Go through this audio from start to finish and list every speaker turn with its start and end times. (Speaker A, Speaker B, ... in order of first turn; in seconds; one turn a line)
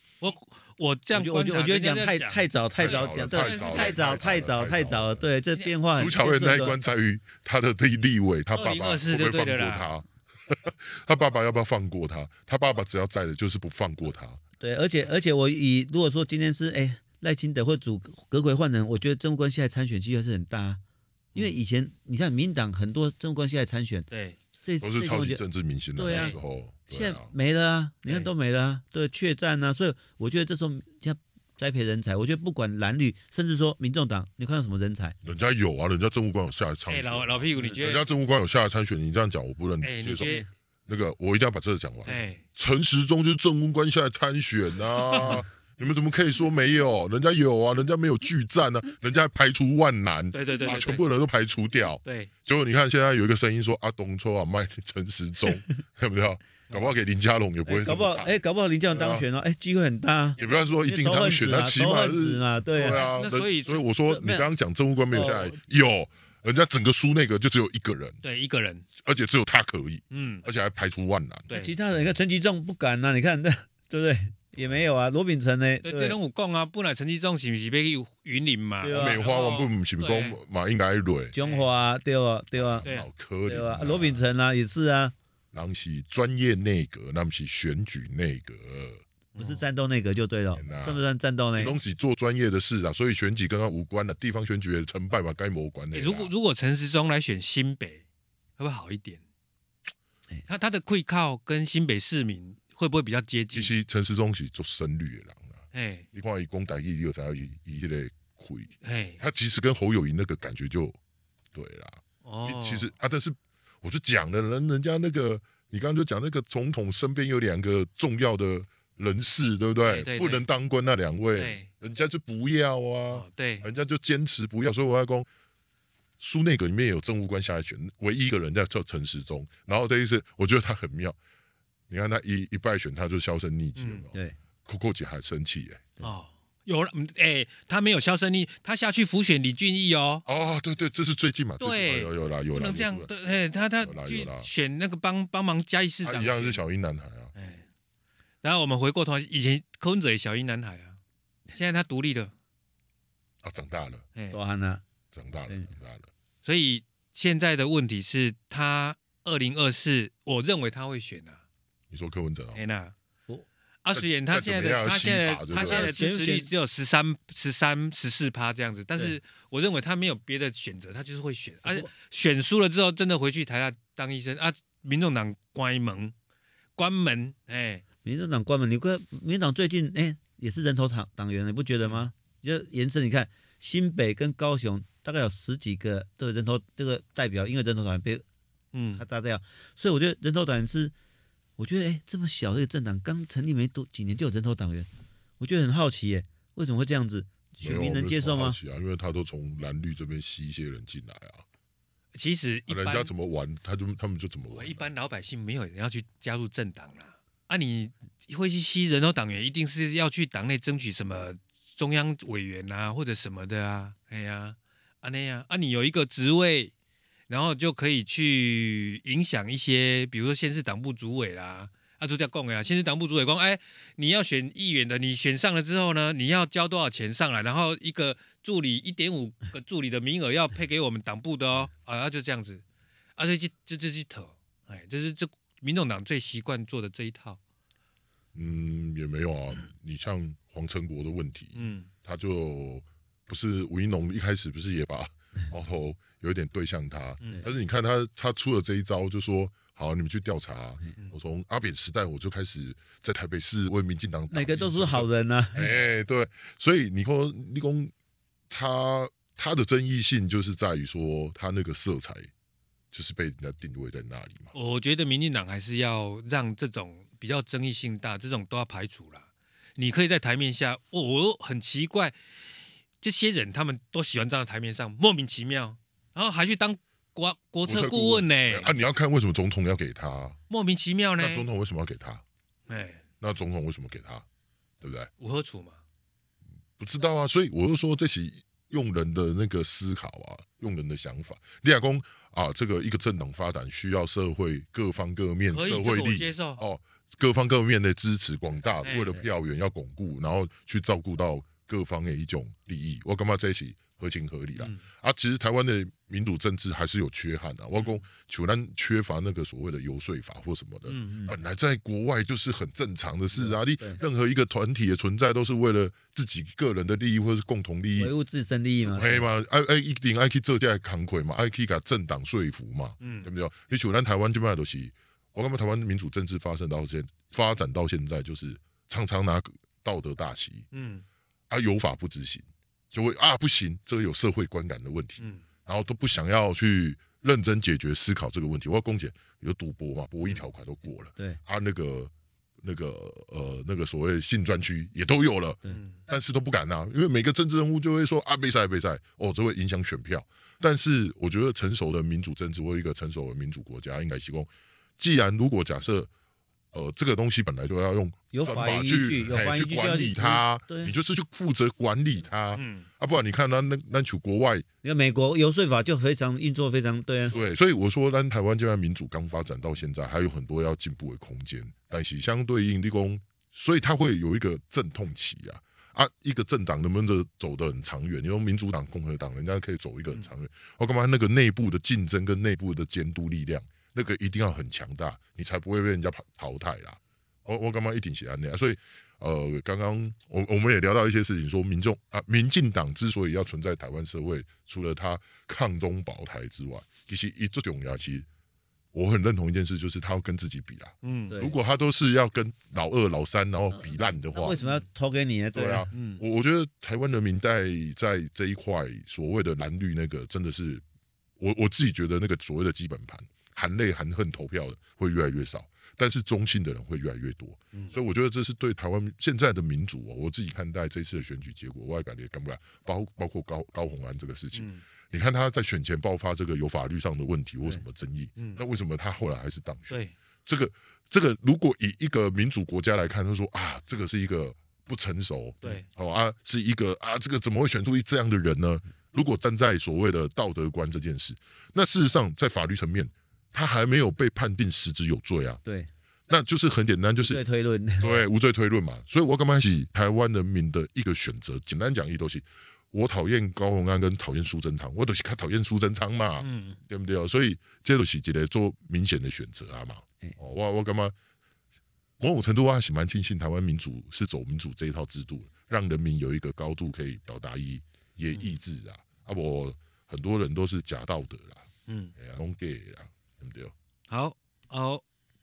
Speaker A: 0.2-4.3
Speaker B: 1.1-6.8
Speaker C: 2.8-5.2
Speaker C: 5.9-14.4
Speaker A: 8.5-9.9
Speaker B: 14.6-20.8
Speaker B: 21.3-24.1
Speaker A: 24.1-24.4
Speaker B: 24.6-25.4
Speaker C: 24.8-27.3
Speaker B: 25.9-26.4
Speaker A: 26.1-26.4
Speaker B: 26.9-35.1
Speaker C: 35.2-58.3
Speaker A: 36.9-38.0
Speaker A: 39.8-40.5
Speaker B: 40.2-40.5
Speaker A: 42.0-42.4
Speaker A: 45.1-45.4
Speaker A: 50.3-51.0
Speaker A: 52.0-52.3
Speaker B: 57.6-63.1
Speaker C: 58.9-59.2
Speaker C: 60.4-68.2
Speaker A: 62.9-63.8
Speaker B: 64.1-64.5
Speaker B: 65.1-65.6
Speaker A: 68.2-68.8
Speaker C: 69.0-71.5
Speaker A: 70.1-70.4
Speaker A: 71.5-71.7
Speaker B: 71.5-76.2
Speaker A: 75.8-80.4
Speaker B: 78.8-79.2
Speaker C: 78.9-81.3
Speaker B: 81.3-82.8
Speaker C: 82.5-84.2
Speaker B: 83.5-85.1
Speaker C: 85.5-89.0
Speaker A: 89.3-89.6
Speaker B: 89.4-91.8
Speaker C: 90.5-91.0
Speaker C: 91.6-96.3
Speaker A: 95.9-98.0
Speaker A: 98.6-99.2
Speaker A: 100.5-103.7
Speaker C: 103.5-105.6
Speaker A: 105.7-106.1
Speaker C: 106.1-111.0
Speaker A: 108.8-109.2
Speaker C: 111.5-125.3
Speaker A: 112.2-112.9
Speaker A: 119.8-120.4
Speaker A: 121.4-121.7
Speaker A: 123.1-123.7
Speaker C: 126.2-131.2
Speaker C: 131.9-135.9
Speaker A: 133.8-134.0
Speaker A: 136.0-140.2
Speaker C: 140.2-143.1
Speaker A: 141.6-146.6
Speaker C: 143.8-144.5
Speaker C: 146.0-147.3
Speaker A: 147.3-147.6
Speaker A: 148.4-151.0
Speaker A: 151.5-152.3
Speaker C: 153.4-154.0
Speaker B: 154.3-154.8
Speaker C: 155.1-156.1
Speaker A: 156.4-161.4
Speaker C: 161.9-162.6
Speaker A: 162.5-162.9
Speaker A: 163.8-176.1
Speaker C: 163.9-165.9
Speaker B: 165.5-166.5
Speaker B: 171.6-171.9
Speaker A: 176.8-177.8
Speaker B: 178.0-188.2
Speaker A: 188.7-189.0
Speaker B: 188.9-190.9
Speaker B: 191.6-194.9
Speaker B: 195.4-198.6
Speaker C: 197.6-201.4
Speaker A: 202.1-203.1
Speaker C: 202.7-204.9
Speaker A: 204.5-216.7
Speaker A: 217.3-232.6
Speaker A: 233.2-237.4
Speaker C: 238.3-257.9
Speaker A: 241.5-241.9
Speaker A: 247.2-247.4
Speaker B: 254.3-255.7
Speaker C: 258.5-262.3
Speaker C: 262.9-264.5
Speaker A: 264.5-272.1
Speaker A: 273.0-278.7
Speaker C: 277.6-280.4
Speaker A: 280.5-281.5
Speaker C: 281.2-282.2
Speaker A: 282.7-283.0
Speaker C: 283.2-284.2
Speaker C: 284.8-285.1
Speaker A: 285.2-285.8
Speaker C: 286.8-318.1
Speaker A: 295.5-296.6
Speaker A: 298.8-299.2
Speaker A: 307.8-308.0
Speaker A: 310.9-311.3
Speaker B: 313.3-314.0
Speaker B: 318.0-319.3
Speaker C: 318.9-330.7
Speaker A: 323.0-323.3
Speaker A: 330.7-331.0
Speaker C: 331.5-342.1
Speaker A: 335.2-335.4
Speaker C: 342.6-356.1
Speaker A: 345.7-346.0
Speaker C: 356.7-364.6
Speaker B: 358.3-360.9
Speaker A: 362.6-362.9
Speaker B: 364.8-367.4
Speaker C: 367.3-398.2
Speaker C: 398.9-404.6
Speaker A: 401.0-401.4
Speaker B: 401.3-401.6
Speaker B: 403.7-405.9
Speaker A: 404.6-404.8
Speaker C: 405.5-410.8
Speaker A: 405.9-406.2
Speaker C: 411.4-445.6
Speaker A: 424.5-424.8
Speaker A: 429.9-430.1
Speaker B: 445.6-445.9
Speaker C: 446.3-447.4
Speaker B: 447.2-448.2
Speaker C: 448.0-461.1
Speaker A: 456.4-456.8
Speaker C: 462.2-471.6
Speaker A: 471.9-472.1
Speaker C: 472.2-473.7
Speaker A: 474.1-475.0